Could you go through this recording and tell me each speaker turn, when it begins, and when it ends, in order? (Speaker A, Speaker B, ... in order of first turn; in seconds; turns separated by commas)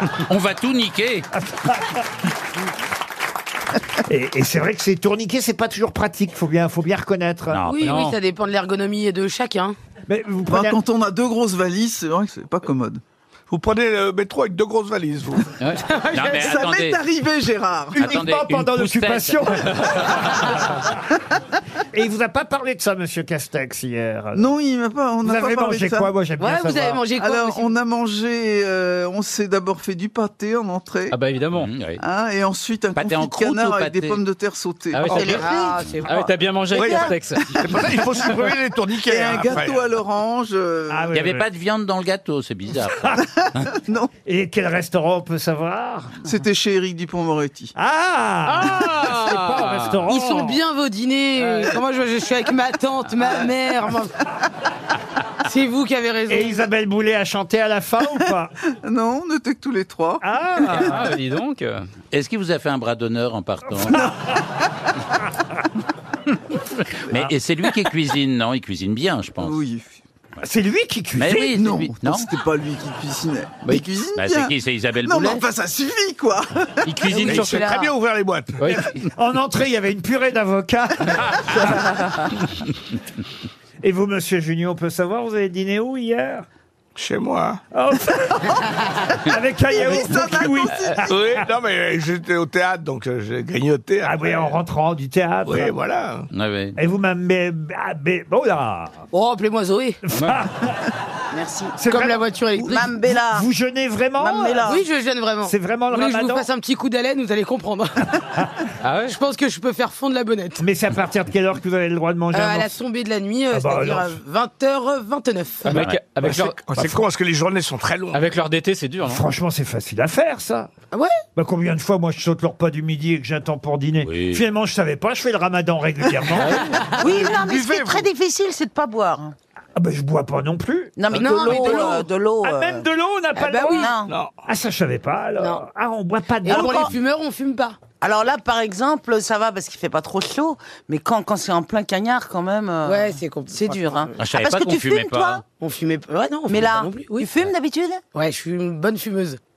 Speaker A: 0.3-1.3, Speaker B: 1.3-2.0, Speaker B: 4.0-7.7, Speaker A: 7.5-8.2, Speaker C: 7.6-9.8, Speaker D: 7.8-8.1, Speaker B: 10.1-10.8, Speaker E: 10.5-13.0, Speaker F: 13.5-15.6, Speaker A: 15.6-17.0, Speaker C: 15.8-16.6, Speaker E: 16.2-18.1, Speaker B: 17.9-20.8, Speaker A: 18.0-19.5, Speaker B: 21.9-24.5, Speaker E: 24.3-26.1, Speaker B: 25.2-27.0, Speaker C: 26.4-27.7, Speaker E: 27.2-31.2, Speaker D: 31.1-31.8, Speaker A: 31.6-32.0, Speaker E: 32.0-35.5, Speaker A: 33.0-34.2, Speaker D: 34.9-35.5, Speaker G: 35.1-36.1, Speaker C: 35.4-36.3, Speaker D: 36.1-37.7, Speaker F: 36.8-39.8, Speaker E: 37.8-41.1, Speaker B: 40.9-41.5, Speaker A: 41.1-43.1, Speaker E: 43.6-44.1, Speaker B: 44.2-46.2, Speaker E: 46.2-47.7, Speaker B: 47.8-50.6, Speaker D: 48.5-50.0, Speaker C: 50.1-54.1, Speaker D: 51.4-51.7, Speaker C: 55.5-56.7, Speaker B: 56.3-58.5, Speaker E: 58.2-61.1, Speaker B: 60.2-61.0, Speaker D: 60.7-61.9, Speaker A: 62.1-64.1, Speaker A: 67.0-69.6, Speaker E: 69.4-70.0, Speaker B: 70.4-71.6, Speaker A: 71.2-72.3, Speaker E: 71.5-77.4, Speaker A: 74.2-75.4, Speaker A: 76.8-77.8, Speaker F: 77.2-78.7, Speaker G: 77.4-77.9, Speaker B: 78.6-81.9, Speaker B: 83.8-86.5, Speaker F: 87.0-87.6, Speaker B: 87.7-91.0, Speaker E: 89.7-91.1, Speaker F: 91.0-94.6, Speaker B: 94.0-95.7, Speaker F: 95.5-96.3, Speaker A: 96.3-96.8, Speaker B: 96.8-99.0, Speaker C: 99.1-100.0, Speaker B: 100.0-100.9, Speaker D: 100.2-100.4, Speaker G: 101.3-101.8, Speaker B: 101.8-104.7, Speaker C: 101.9-102.9, Speaker G: 102.5-103.5, Speaker G: 104.2-104.9, Speaker C: 104.6-108.1, Speaker B: 105.5-106.5, Speaker D: 108.8-109.2, Speaker C: 109.0-110.6, Speaker B: 110.6-112.7, Speaker C: 112.3-115.8, Speaker B: 113.5-114.2, Speaker D: 115.7-116.9, Speaker A: 115.7-116.0, Speaker F: 116.2-118.2, Speaker D: 118.2-119.2, Speaker B: 119.0-120.7, Speaker C: 120.9-121.2, Speaker B: 121.3-127.2, Speaker A: 124.0-124.4, Speaker C: 126.6-127.0, Speaker G: 127.0-129.3, Speaker F: 127.1-128.1, Speaker B: 129.8-136.9, Speaker G: 131.0-132.9, Speaker C: 131.1-132.1, Speaker C: 133.3-133.9, Speaker G: 133.7-134.2, Speaker F: 134.1-134.3, Speaker C: 135.3-135.7, Speaker C: 136.4-137.8, Speaker G: 136.5-136.9, Speaker G: 137.9-145.4, Speaker C: 142.8-144.1, Speaker A: 144.2-145.4, Speaker C: 145.5-147.3, Speaker G: 146.5-148.0, Speaker C: 148.1-149.4